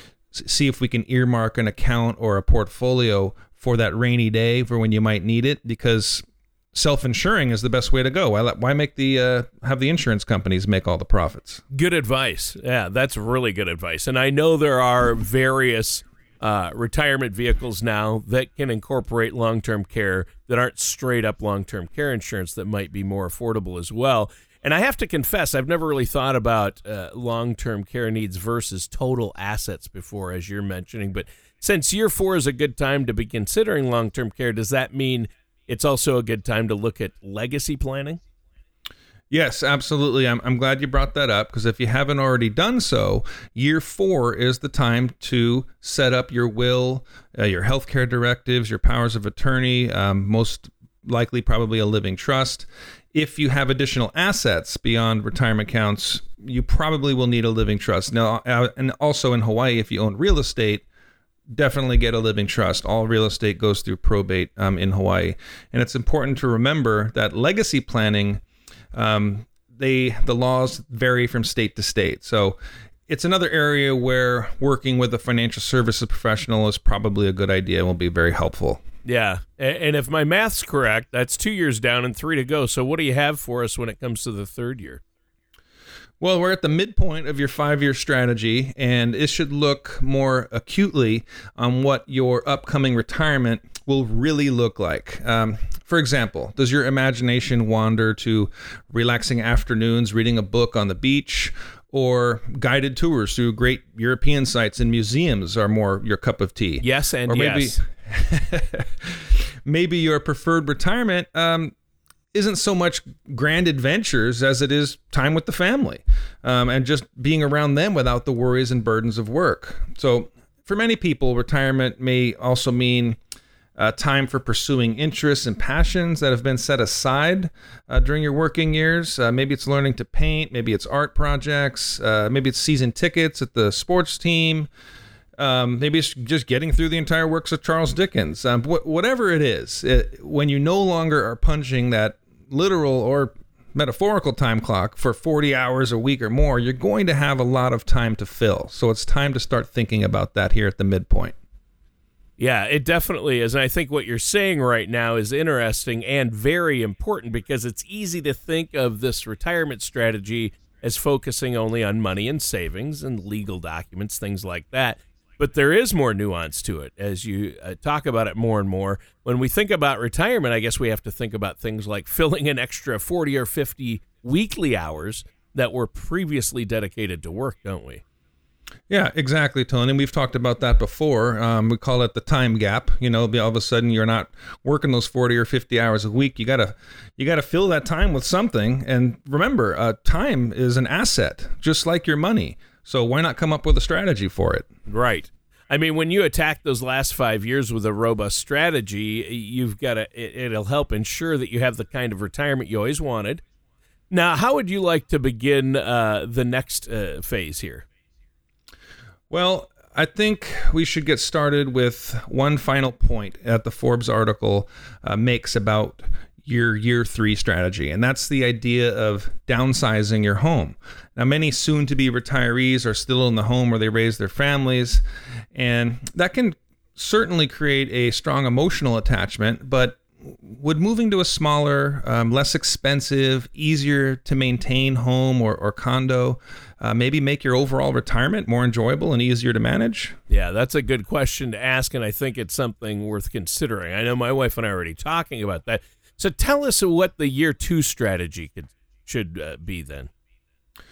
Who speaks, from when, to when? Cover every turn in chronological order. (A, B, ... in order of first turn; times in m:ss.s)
0:00.3-0:11.6 A
0:11.7-0:38.2 B
0:39.3-1:00.8 A
1:01.5-1:08.4 A
1:08.9-1:12.6 A
1:13.1-1:18.8 A
1:19.0-1:25.0 B
1:26.2-1:51.7 A
1:46.8-1:47.8 B
1:52.3-2:03.2 A
2:03.8-2:14.7 A
2:15.4-2:31.4 A
2:32.4-2:58.0 B
2:58.9-3:14.7 A
3:14.9-3:23.4 B
3:24.1-3:27.8 B
3:29.3-3:45.0 A
3:45.5-4:00.2 A
4:00.3-4:10.1 B